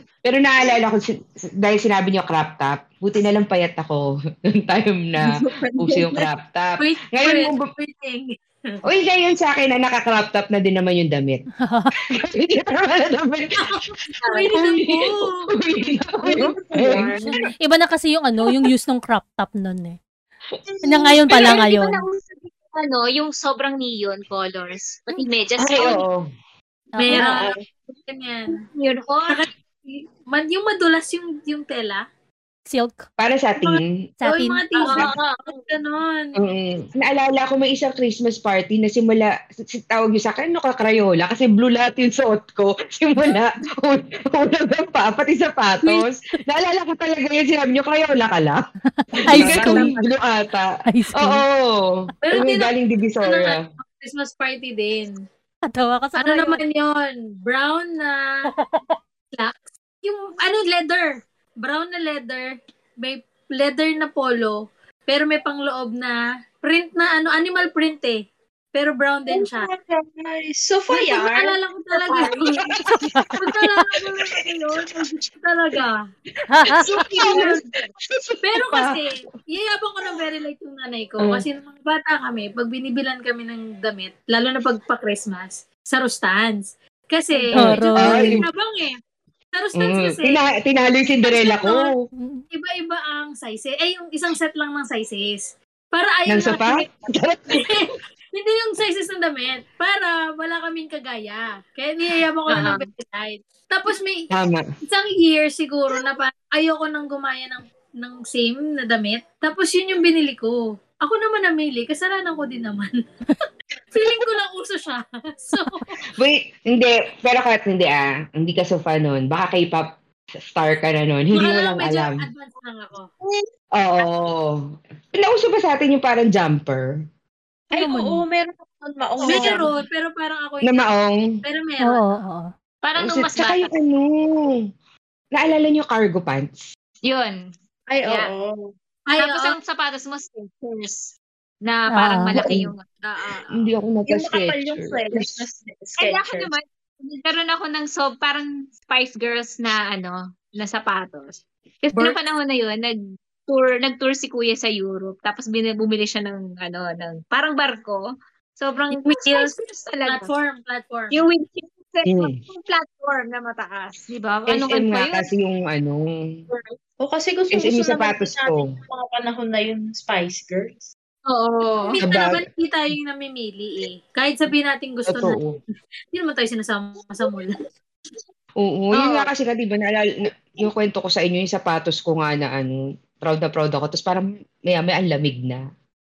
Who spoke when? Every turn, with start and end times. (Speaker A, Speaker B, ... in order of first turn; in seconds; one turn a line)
Speaker A: 0.2-7.7
Speaker B: 5.2-6.3
Speaker C: 6.8-8.3
Speaker A: 8.8-11.4
Speaker D: 11.6-11.9
Speaker A: 12.1-13.8
Speaker C: 13.6-15.5
Speaker E: 14.2-14.5
Speaker A: 14.5-17.2
Speaker B: 16.2-17.3
Speaker D: 17.6-20.0
Speaker D: 20.8-22.0
Speaker E: 21.4-26.0
Speaker A: 25.6-26.2
Speaker C: 27.0-27.5
Speaker B: 27.1-27.6
Speaker C: 28.1-28.6
Speaker E: 28.5-29.5
Speaker C: 29.3-32.0
Speaker D: 32.7-33.0
Speaker A: 33.2-34.0
Speaker C: 33.6-36.3
Speaker D: 34.2-34.6
Speaker E: 34.8-35.7
Speaker A: 36.4-48.6
Speaker D: 49.0-50.0
Speaker A: 49.3-53.6
Speaker E: 49.5-49.9
Speaker D: 50.9-51.4
Speaker C: 52.2-55.1
Speaker D: 55.7-56.6
Speaker C: 56.2-58.2
Speaker D: 58.6-59.0
Speaker C: 59.3-64.6
Speaker C: 65.1-68.2
Speaker C: 68.8-69.7
Speaker B: 69.3-72.5
Speaker C: 70.9-72.8
Speaker A: 72.7-73.2
Speaker D: 72.8-73.8
Speaker C: 73.4-76.0
Speaker A: 74.1-74.7
Speaker D: 76.5-77.1
Speaker A: 76.7-79.0
Speaker C: 77.1-77.7
Speaker C: 78.4-89.0
Speaker D: 87.6-88.4
Speaker A: 88.0-88.4
Speaker C: 89.6-90.5
Speaker A: 89.8-91.9
Speaker C: 91.2-91.9
Speaker D: 92.2-92.4
Speaker C: 92.5-96.9
Speaker A: 96.3-97.8
Speaker C: 97.5-104.3
Speaker E: 102.5-102.9
Speaker A: 104.3-104.7
Speaker C: 104.8-112.9
Speaker C: 113.9-115.8
Speaker A: 116.2-119.9
Speaker A: 120.5-122.3
Speaker C: 121.3-123.1
Speaker A: 123.8-127.0
Speaker B: 127.7-129.7
Speaker D: 127.7-128.2
Speaker E: 129.2-129.7
Speaker C: 129.3-130.9
Speaker A: 130.6-131.2
Speaker C: 131.4-132.0
Speaker D: 131.8-132.5
Speaker E: 132.8-133.7
Speaker A: 133.0-134.6
Speaker A: 135.3-136.7
Speaker E: 137.0-137.4
Speaker B: 137.9-138.6
Speaker E: 138.1-138.3
Speaker C: 139.1-139.6
Speaker E: 139.2-141.1
Speaker E: 141.6-142.9
Speaker D: 141.9-142.3
Speaker A: 142.3-142.7
Speaker C: 143.1-143.5
Speaker A: 143.5-145.4
Speaker B: 144.1-146.5
Speaker E: 146.0-158.0
Speaker E: 158.6-160.3
Speaker C: 158.9-161.2
Speaker E: 161.1-165.3
Speaker A: 162.1-162.4
Speaker A: 164.5-166.4
Speaker E: 166.5-166.8
Speaker B: 167.0-170.9
Speaker A: 167.5-168.6
Speaker E: 171.2-172.0
Speaker C: 171.6-175.4
Speaker A: 172.0-172.4
Speaker A: 175.1-175.6
Speaker C: 176.1-177.6
Speaker A: 178.6-185.6
Speaker E: 178.9-179.3